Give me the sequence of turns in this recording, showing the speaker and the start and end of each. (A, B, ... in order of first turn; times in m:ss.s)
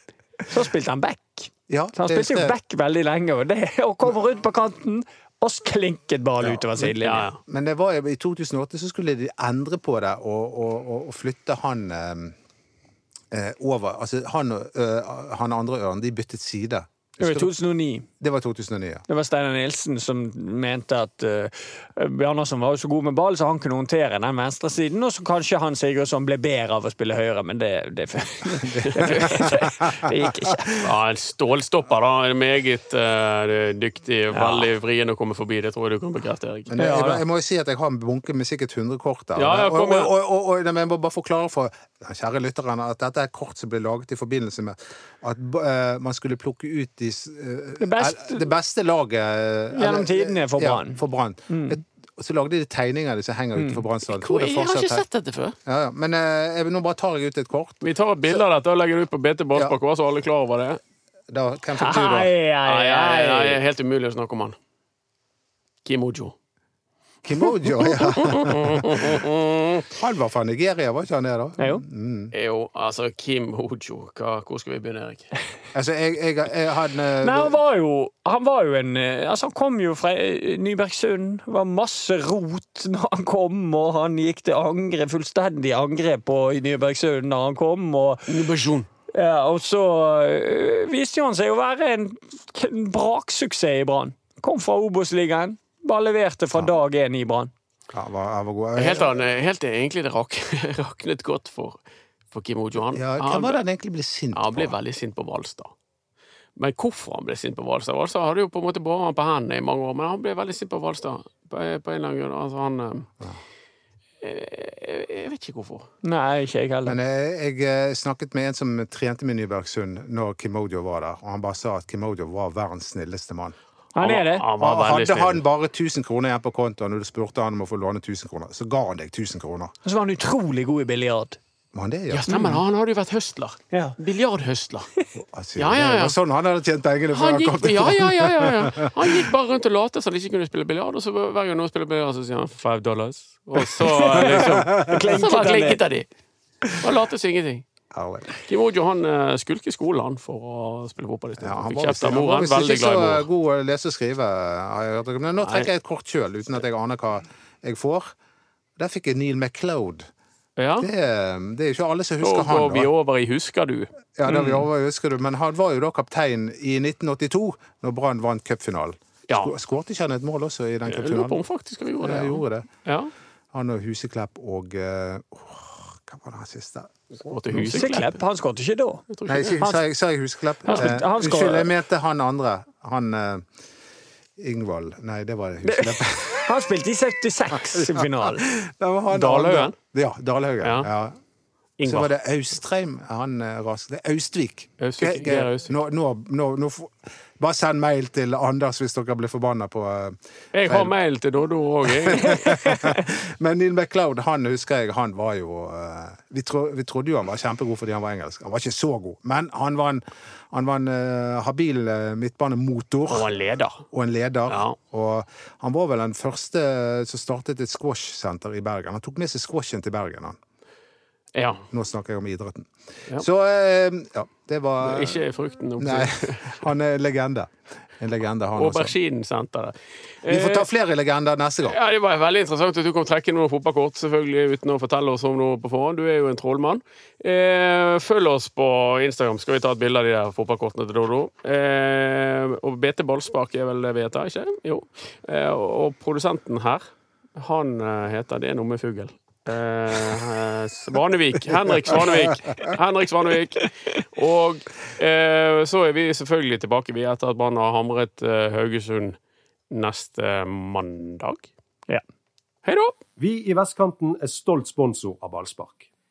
0:00.5-0:07.3 A
0:01.7-0:02.6 B
0:06.4-0:12.4 B
0:07.0-0:07.4 C
0:13.3-0:17.5 B
0:17.2-0:18.1 A
0:18.2-0:19.0 B
0:19.1-0:30.8 A
0:28.6-0:30.4 B
0:30.8-0:36.7 C
0:34.3-0:34.7 A
0:36.7-0:55.0 B
0:36.8-0:37.2 A
0:39.4-0:40.1 C
0:47.8-0:48.4 A
0:49.7-0:51.8 A
0:53.6-0:53.8 A
0:54.1-0:55.6 C
0:55.6-0:57.8 B
0:57.8-1:00.8 C
1:01.3-1:02.3 B
1:01.8-1:03.6 A
1:02.6-1:04.6 C
1:05.8-1:06.3 C
1:07.2-1:09.2 B
1:07.8-1:09.9 C
1:10.0-1:12.3 B
1:12.3-1:15.3 C
1:15.7-1:17.6 B
1:17.2-1:28.3 A
1:28.3-1:28.9 C
1:29.1-1:37.5 A
1:37.9-1:39.2 B
1:38.8-1:41.8 C
1:42.3-1:43.6 C
1:42.9-1:44.8 B
1:44.3-1:45.7 C
1:46.6-1:53.1 C
1:54.2-1:55.9 C
1:56.0-1:57.0 A
1:56.8-2:03.6 B
2:03.9-2:04.4 A
2:04.0-2:05.4 C
2:04.6-2:09.7 B
2:09.8-2:11.4 A
2:11.7-2:12.4 B
2:12.1-2:14.9 C
2:12.3-2:12.6 A
2:13.7-2:14.0 A
2:15.2-2:19.3 B
2:15.6-2:16.1 C
2:17.1-2:26.1 C
2:23.9-2:25.8 A
2:24.1-2:25.0 B
2:26.8-2:27.6 C
2:27.9-2:28.3 B
2:28.4-2:33.3 C
2:31.4-2:38.1 B
2:35.4-2:35.7 C
2:38.8-2:40.1 B
2:40.6-2:40.9 C
2:40.8-2:42.9 B
2:42.2-2:44.6 C
2:44.2-2:51.4 B
2:50.9-2:53.1 C
2:52.0-2:52.7 B
2:53.5-2:57.9 B
2:57.2-2:58.1 C
2:57.5-2:59.0 A
2:59.1-2:59.6 C
2:59.3-3:03.5 B
3:00.6-3:01.7 A
3:04.4-3:06.5 B
3:05.6-3:08.4 A
3:07.5-3:11.2 B
3:09.1-3:09.8 C
3:10.6-3:10.9 C
3:11.8-3:12.1 C
3:11.8-3:20.9 B
3:14.8-3:15.7 C
3:20.5-3:22.5 C
3:21.9-3:33.3 B
3:22.3-3:23.0 A
3:33.1-3:33.8 C
3:33.9-3:40.4 B
3:34.5-3:34.8 C
3:41.4-3:41.6 C
3:41.7-3:45.2 B
3:44.8-3:46.6 C
3:45.8-3:48.9 B
3:48.6-3:50.7 C
3:50.3-3:51.8 B
3:51.7-4:06.8 C
4:07.4-4:19.2 C
4:19.7-4:21.5 C
4:22.6-4:23.0 C
4:23.2-4:25.9 D